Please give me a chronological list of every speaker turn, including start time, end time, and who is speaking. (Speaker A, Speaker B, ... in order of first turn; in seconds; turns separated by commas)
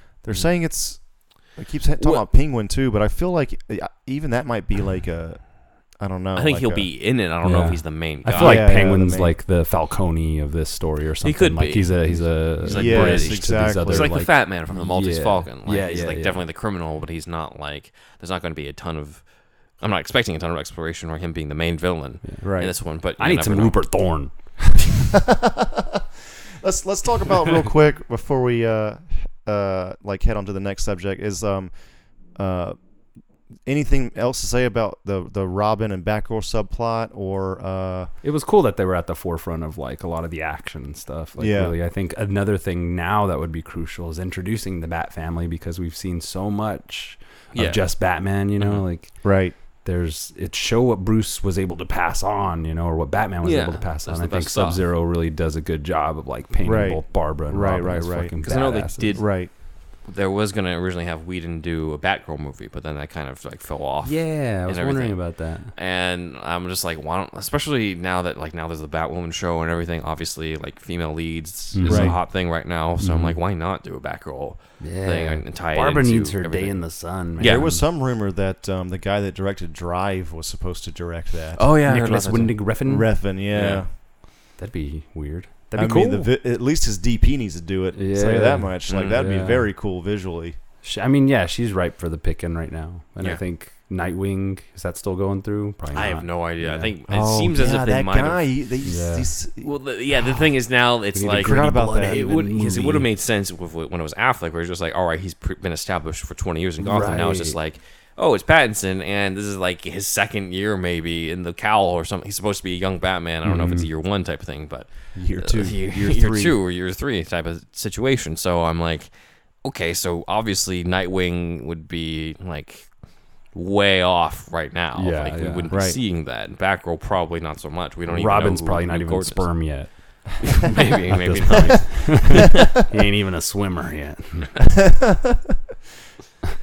Speaker A: 0.2-6.9, Speaker B: 2.0-2.2, Speaker B: 6.3-8.7, Speaker C: 7.4-16.4, Speaker A: 8.3-9.3, Speaker B: 11.2-24.0, Speaker A: 12.6-14.2, Speaker A: 22.4-22.8, Speaker C: 23.1-25.1, Speaker A: 25.2-26.0, Speaker A: 26.6-32.8, Speaker A: 33.6-38.1, Speaker C: 38.2-59.2, Speaker A: 41.4-41.8, Speaker B: 47.5-48.9, Speaker A: 49.2-49.5, Speaker B: 53.4-54.8, Speaker A: 56.6-59.5, Speaker B: 58.4-77.7, Speaker C: 64.0-65.7, Speaker C: 71.7-73.4, Speaker A: 71.8-72.2, Speaker C: 74.8-77.8, Speaker A: 77.4-81.8, Speaker B: 81.5-82.7, Speaker C: 81.8-83.1, Speaker A: 82.8-83.9, Speaker B: 83.5-83.8, Speaker C: 84.5-86.3, Speaker A: 85.7-90.6, Speaker C: 87.9-89.7, Speaker B: 88.9-89.2, Speaker C: 90.8-96.9, Speaker B: 95.9-98.5, Speaker A: 97.1-100.4, Speaker C: 98.8-99.3, Speaker B: 99.6-132.5, Speaker C: 101.1-103.1, Speaker A: 101.3-102.3, Speaker C: 106.8-107.6, Speaker C: 113.4-113.9, Speaker A: 115.1-116.6, Speaker C: 124.9-125.8, Speaker A: 125.7-126.0, Speaker C: 128.1-134.6, Speaker A: 134.9-135.3